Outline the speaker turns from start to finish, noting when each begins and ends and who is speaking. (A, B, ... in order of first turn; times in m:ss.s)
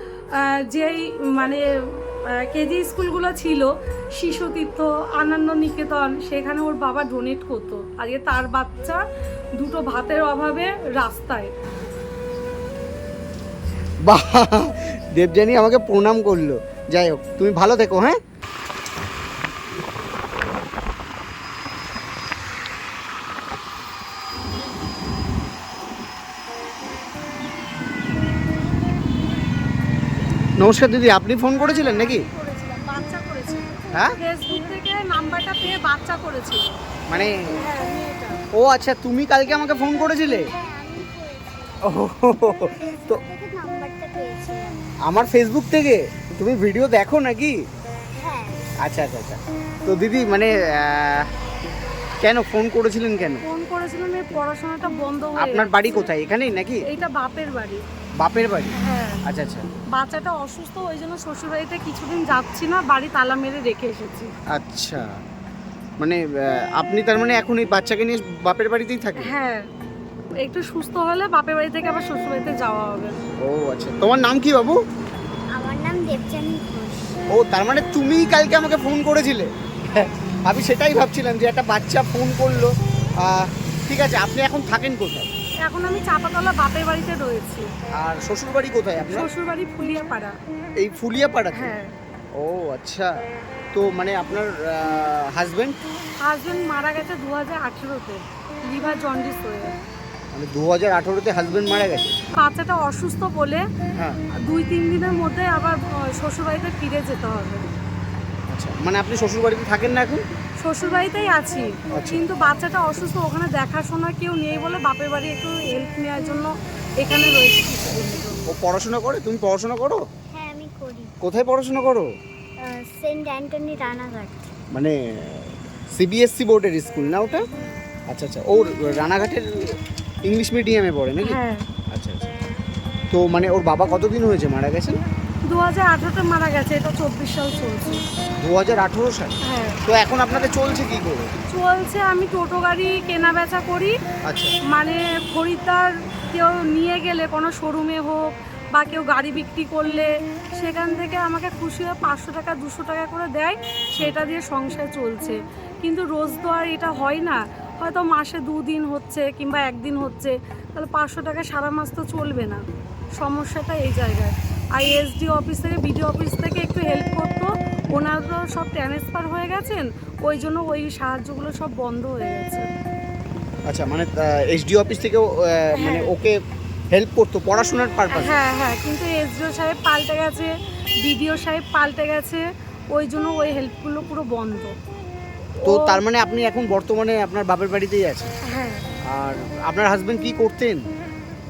0:00.3-0:09.0 A
0:09.6-0:11.5 A
0:14.0-0:18.2 B
0:30.6-0:32.2 B
0:31.6-0:36.8 A
0:37.6-0:38.4 A
0:38.5-0:40.4 B
0:40.5-0:42.0 C
0:41.8-0:43.2 B
0:42.6-0:44.9 C
0:45.0-0:47.6 B
0:48.2-0:48.7 C
0:48.8-0:51.3 B
0:52.2-0:53.4 B
0:53.4-0:56.1 A
0:55.4-0:56.8 B
0:56.8-0:57.8 A
0:58.2-0:59.7 B
0:58.8-0:59.2 A
0:59.9-1:04.3 A
1:04.5-1:05.1 B
1:06.0-1:09.3 B
1:09.2-1:09.7 A
1:10.4-1:13.1 A
1:13.4-1:14.8 B
1:15.5-1:17.2 C
1:17.3-1:25.3 B
1:25.6-1:27.7 A
1:28.0-1:29.3 B
1:29.1-1:30.4 A
1:30.8-1:31.8 B
1:31.5-1:31.9 A
1:32.3-1:33.1 B
1:33.7-1:35.8 B
1:36.2-1:39.7 A
1:40.3-1:42.2 B
1:42.3-1:43.6 A
1:44.0-1:44.3 B
1:44.4-1:47.6 A
1:48.5-1:50.2 B
1:50.6-1:58.4 A
1:51.9-1:52.2 B
1:58.5-2:00.0 B
2:00.3-2:01.1 C
2:01.2-2:02.1 B
2:02.6-2:04.5 C
2:04.7-2:07.4 B
2:08.1-2:09.5 B
2:10.2-2:11.4 B
2:11.2-2:11.6 A
2:11.9-2:12.3 B
2:13.1-2:15.0 B
2:15.5-2:18.0 A
2:18.4-2:21.3 B
2:19.4-2:19.8 A
2:21.5-2:23.9 A
2:24.2-2:24.6 B
2:24.7-2:42.6 A
2:43.2-2:52.7 A
2:53.7-2:56.4 B
2:55.8-2:56.1 A
2:56.9-2:58.4 B
2:58.1-3:04.7 A
3:05.6-3:06.0 A
3:05.6-3:08.3 B
3:08.4-3:08.8 A
3:09.1-3:10.8 B